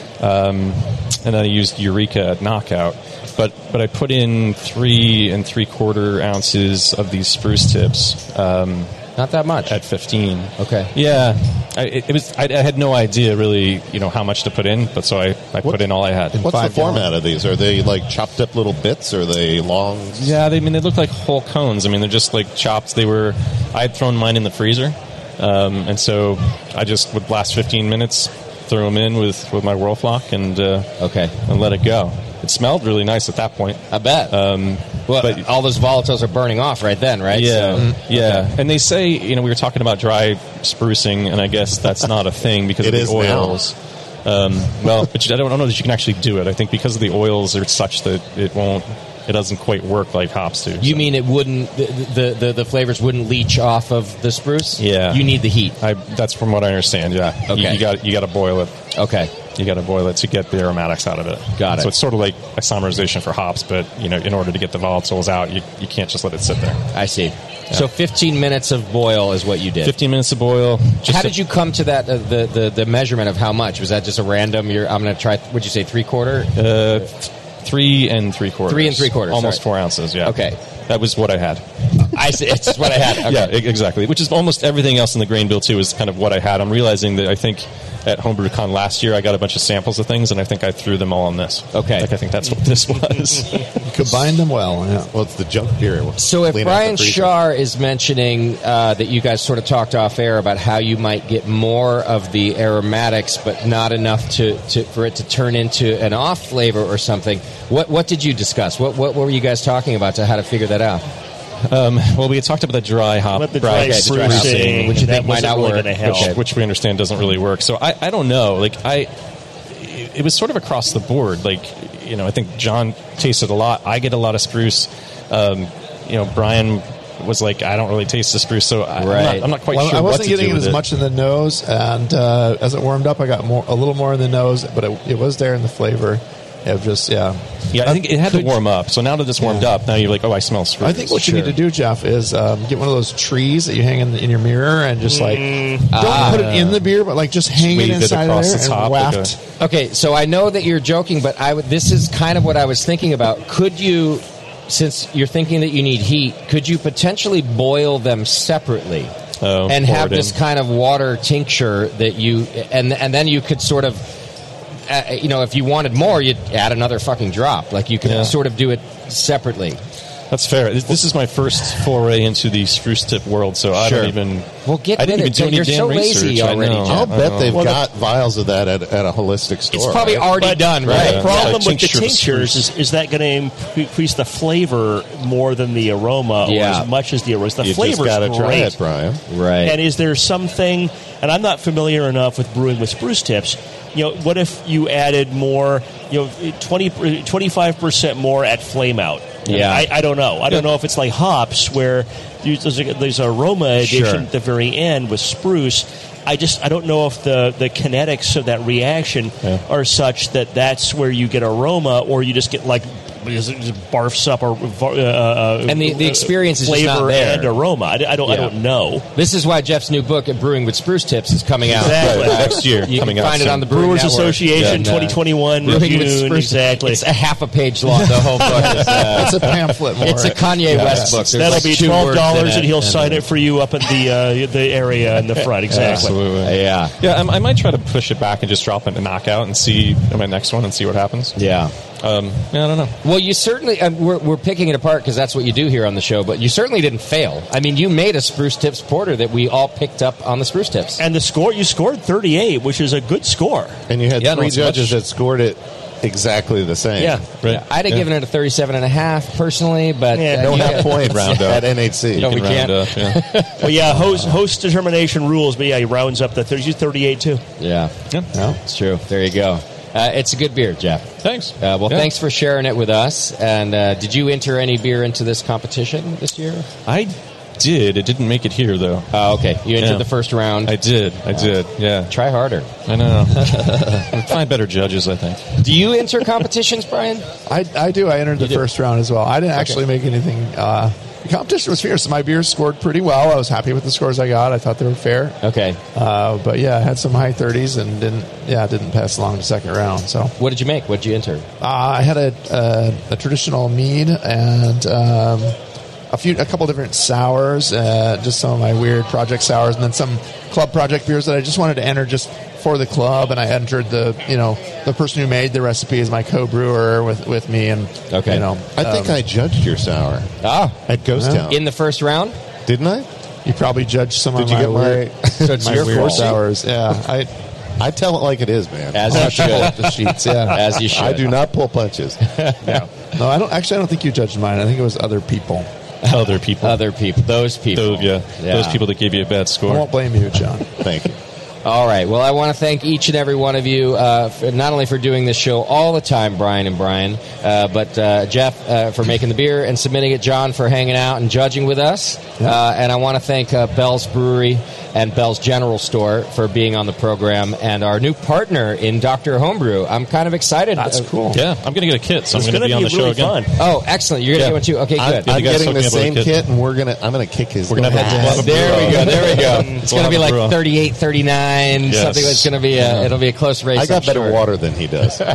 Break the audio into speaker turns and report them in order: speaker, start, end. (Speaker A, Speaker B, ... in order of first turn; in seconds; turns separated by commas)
Speaker A: 0.2-9.0, Speaker B: 9.2-9.8, Speaker A: 9.7-16.4, Speaker B: 10.6-10.9, Speaker C: 16.3-20.3, Speaker D: 16.4-17.1, Speaker A: 20.2-35.5, Speaker B: 31.0-31.4, Speaker B: 33.9-34.4, Speaker B: 35.1-38.5, Speaker A: 37.3-51.1, Speaker C: 42.8-43.6, Speaker B: 50.8-55.8, Speaker A: 54.8-58.7, Speaker B: 57.5-57.8, Speaker B: 58.9-59.3, Speaker A: 59.5-66.9, Speaker B: 61.6-61.9, Speaker B: 66.9-69.9, Speaker A: 69.8-71.3, Speaker B: 71.0-76.6, Speaker A: 76.6-82.2, Speaker B: 78.7-79.6, Speaker B: 80.2-80.6, Speaker B: 82.0-83.5, Speaker A: 82.8-93.8, Speaker B: 91.7-92.1, Speaker D: 93.8-95.1, Speaker C: 95.1-97.4, Speaker B: 96.2-111.0, Speaker A: 111.7-115.1, Speaker E: 113.3-116.3, Speaker B: 113.7-116.4, Speaker A: 116.1-119.1, Speaker A: 119.7-130.8, Speaker B: 128.9-129.5, Speaker D: 129.7-138.6, Speaker A: 137.7-141.4, Speaker D: 139.4-139.7, Speaker D: 140.8-149.4, Speaker B: 141.2-141.5, Speaker E: 145.1-146.3, Speaker B: 145.9-146.5, Speaker A: 146.3-146.8, Speaker A: 147.5-149.3, Speaker B: 149.6-159.1, Speaker A: 159.4-160.3, Speaker B: 159.7-164.1, Speaker B: 164.9-169.8, Speaker A: 168.0-168.4, Speaker A: 170.3-177.5, Speaker B: 173.8-177.1, Speaker C: 176.9-180.3, Speaker E: 177.5-177.8, Speaker B: 179.7-181.6, Speaker E: 180.3-188.8, Speaker A: 180.8-182.7, Speaker B: 186.4-186.9, Speaker C: 187.6-189.2, Speaker B: 189.3-189.8, Speaker E: 189.6-219.0, Speaker B: 199.5-199.9, Speaker B: 203.8-204.3, Speaker B: 215.7-217.5, Speaker B: 218.3-218.5, Speaker B: 219.2-233.2, Speaker E: 221.7-222.7, Speaker A: 221.7-223.7, Speaker E: 223.7-227.0, Speaker A: 224.6-224.9, Speaker D: 228.6-231.5, Speaker E: 231.1-236.2, Speaker D: 235.7-236.1, Speaker A: 235.7-241.4, Speaker B: 236.4-237.0, Speaker B: 241.4-241.7, Speaker A: 242.0-242.9, Speaker B: 243.0-251.0, Speaker E: 251.0-253.8, Speaker C: 253.9-257.2, Speaker A: 254.2-255.0, Speaker B: 257.0-261.5, Speaker A: 257.4-258.1, Speaker E: 260.1-261.0, Speaker C: 260.4-262.3, Speaker A: 261.0-263.2, Speaker B: 262.2-264.0, Speaker E: 263.6-267.4, Speaker B: 267.6-267.9, Speaker D: 268.3-268.6, Speaker B: 268.6-276.7, Speaker A: 271.2-272.1, Speaker A: 276.9-279.1, Speaker B: 279.1-280.8, Speaker A: 279.8-280.1, Speaker A: 280.6-282.1, Speaker B: 281.3-281.5, Speaker B: 282.1-282.7, Speaker A: 282.9-285.6, Speaker B: 285.6-287.2, Speaker D: 287.5-295.4, Speaker B: 295.4-295.8, Speaker D: 295.9-300.3, Speaker B: 300.4-301.5, Speaker D: 301.6-305.6, Speaker D: 306.1-319.2, Speaker B: 318.1-318.4, Speaker C: 318.7-320.3, Speaker B: 320.4-320.8, Speaker C: 320.9-321.6, Speaker D: 321.1-321.5, Speaker B: 321.5-322.4, Speaker C: 322.7-323.1, Speaker D: 323.4-327.3, Speaker C: 324.4-326.4, Speaker B: 325.4-326.4, Speaker C: 327.8-329.7, Speaker B: 328.9-331.3, Speaker D: 329.1-331.0, Speaker C: 330.9-332.2, Speaker B: 332.3-332.9, Speaker D: 333.1-335.7, Speaker B: 336.0-338.9, Speaker A: 336.1-336.8, Speaker A: 337.8-339.9, Speaker D: 339.7-340.9, Speaker C: 340.8-341.2, Speaker B: 341.6-361.1, Speaker D: 360.8-361.4, Speaker A: 361.3-363.5, Speaker E: 362.3-363.5, Speaker B: 363.6-365.3, Speaker C: 365.0-368.9, Speaker A: 365.2-366.4, Speaker A: 367.7-370.6, Speaker D: 367.9-368.8, Speaker B: 367.9-374.4, Speaker A: 371.8-373.1, Speaker C: 373.7-375.2